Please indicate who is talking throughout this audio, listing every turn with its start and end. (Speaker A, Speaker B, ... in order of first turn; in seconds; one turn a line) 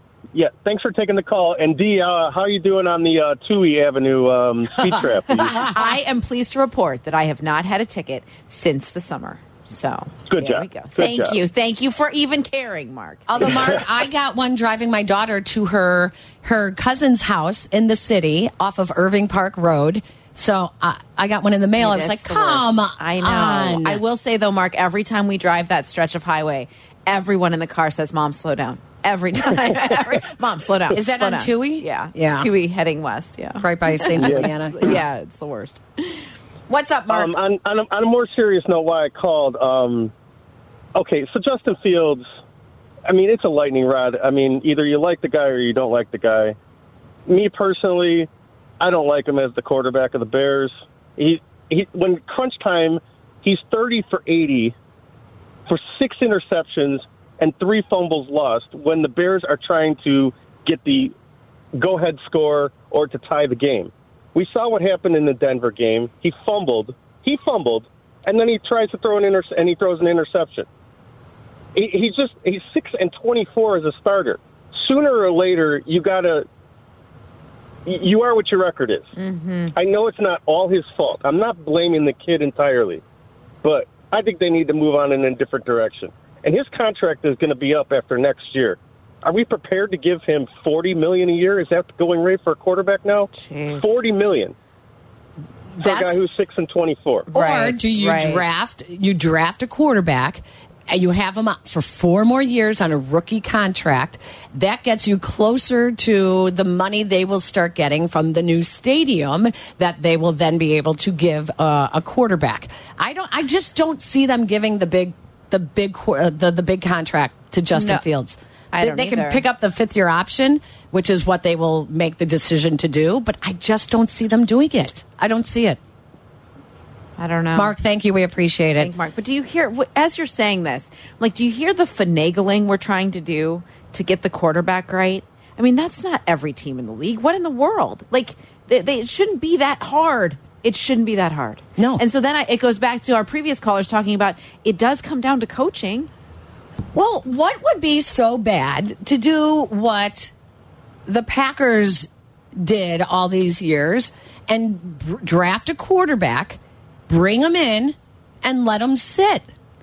Speaker A: 0.3-5.7
Speaker B: 4.8-5.7
Speaker C: 5.3-13.8
Speaker A: 10.3-11.4
Speaker B: 13.3-24.0
Speaker C: 21.8-36.2
Speaker B: 30.9-32.5
Speaker B: 33.6-35.0
Speaker A: 34.2-34.9
Speaker B: 36.7-37.3
Speaker A: 37.1-40.1
Speaker A: 41.0-42.2
Speaker A: 43.1-46.6
Speaker A: 47.3-48.3
Speaker A: 48.8-54.8
Speaker A: 55.7-61.1
Speaker A: 61.8-70.7
Speaker A: 71.8-76.5
Speaker A: 77.9-79.1
Speaker C: 79.2-79.8
Speaker A: 79.8-83.0
Speaker A: 83.6-94.5
Speaker C: 93.3-94.0
Speaker B: 95.8-96.2
Speaker A: 95.8-97.3
Speaker C: 97.3-98.5
Speaker B: 97.3-125.8
Speaker C: 117.7-118.0
Speaker C: 118.7-119.5
Speaker C: 127.2-127.8
Speaker B: 127.5-128.9
Speaker C: 128.8-146.1
Speaker B: 141.8-142.0
Speaker B: 146.9-150.3
Speaker B: 151.1-156.6
Speaker B: 157.1-159.5